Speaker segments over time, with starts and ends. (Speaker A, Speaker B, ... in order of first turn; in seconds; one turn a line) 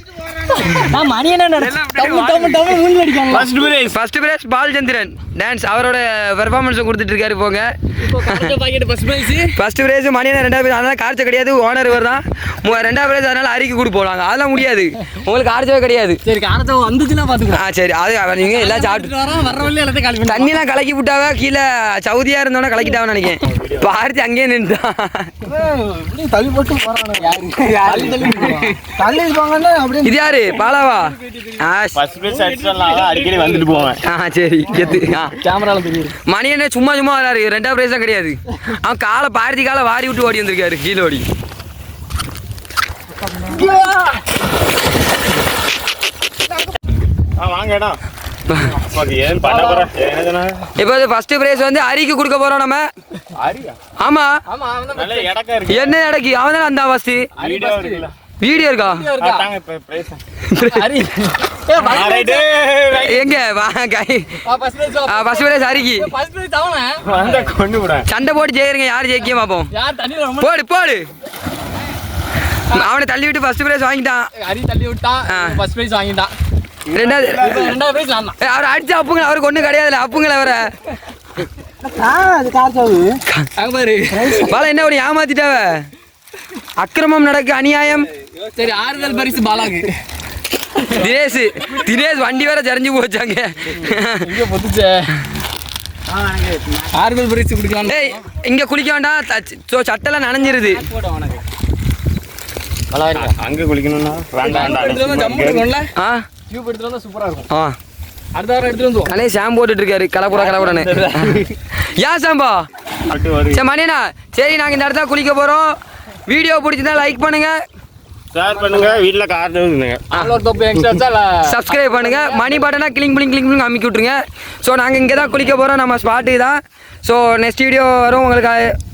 Speaker A: 0.5-3.6
Speaker B: 1.6-2.8
Speaker C: 3.3-4.0
Speaker B: 3.9-8.5
Speaker A: 8.0-9.6
Speaker B: 9.5-16.2
Speaker A: 16.2-17.6
Speaker B: 17.5-19.3
Speaker A: 18.4-20.5
Speaker B: 20.3-25.5
Speaker C: 23.5-23.9
Speaker A: 25.4-28.9
Speaker B: 27.7-32.0
Speaker A: 30.4-31.6
Speaker C: 31.9-34.0
Speaker A: 32.2-33.9
Speaker B: 34.0-35.4
Speaker A: 35.4-36.2
Speaker B: 36.3-41.3
Speaker A: 43.3-44.2
Speaker C: 47.4-48.0
Speaker B: 48.5-48.8
Speaker C: 48.8-50.7
Speaker A: 49.4-49.9
Speaker B: 50.8-52.9
Speaker C: 53.4-53.8
Speaker B: 54.0-54.3
Speaker A: 54.5-55.3
Speaker C: 54.9-56.0
Speaker B: 55.7-57.3
Speaker C: 57.4-58.1
Speaker A: 57.4-58.1
Speaker B: 58.4-59.1
Speaker A: 58.8-59.5
Speaker C: 59.2-60.2
Speaker B: 60.5-61.1
Speaker A: 60.6-62.5
Speaker C: 61.8-63.4
Speaker B: 62.9-64.5
Speaker A: 64.4-67.3
Speaker B: 65.0-66.1
Speaker C: 67.0-68.1
Speaker B: 68.1-69.7
Speaker A: 69.7-70.5
Speaker B: 70.4-71.1
Speaker B: 72.7-74.3
Speaker A: 74.4-76.3
Speaker B: 75.3-75.6
Speaker C: 76.9-77.8
Speaker B: 76.9-77.5
Speaker A: 77.4-78.4
Speaker B: 78.4-80.8
Speaker A: 81.8-84.6
Speaker B: 84.3-85.9
Speaker B: 86.8-88.1
Speaker A: 88.1-90.0
Speaker B: 90.8-94.2
Speaker A: 91.7-92.0
Speaker A: 94.2-95.1
Speaker C: 96.1-96.9
Speaker A: 96.9-98.2
Speaker B: 97.8-100.8
Speaker A: 100.4-101.4
Speaker B: 102.9-103.3
Speaker C: 103.1-105.7
Speaker A: 104.4-105.9
Speaker B: 106.0-106.2
Speaker A: 106.5-107.5
Speaker B: 107.5-107.8
Speaker A: 108.3-109.2
Speaker B: 109.1-112.7
Speaker A: 110.3-111.5
Speaker C: 113.1-113.7
Speaker B: 113.5-115.8
Speaker B: 116.3-117.6
Speaker C: 118.3-120.1
Speaker A: 118.4-119.0
Speaker B: 120.1-120.4
Speaker A: 120.1-122.6
Speaker B: 121.4-128.7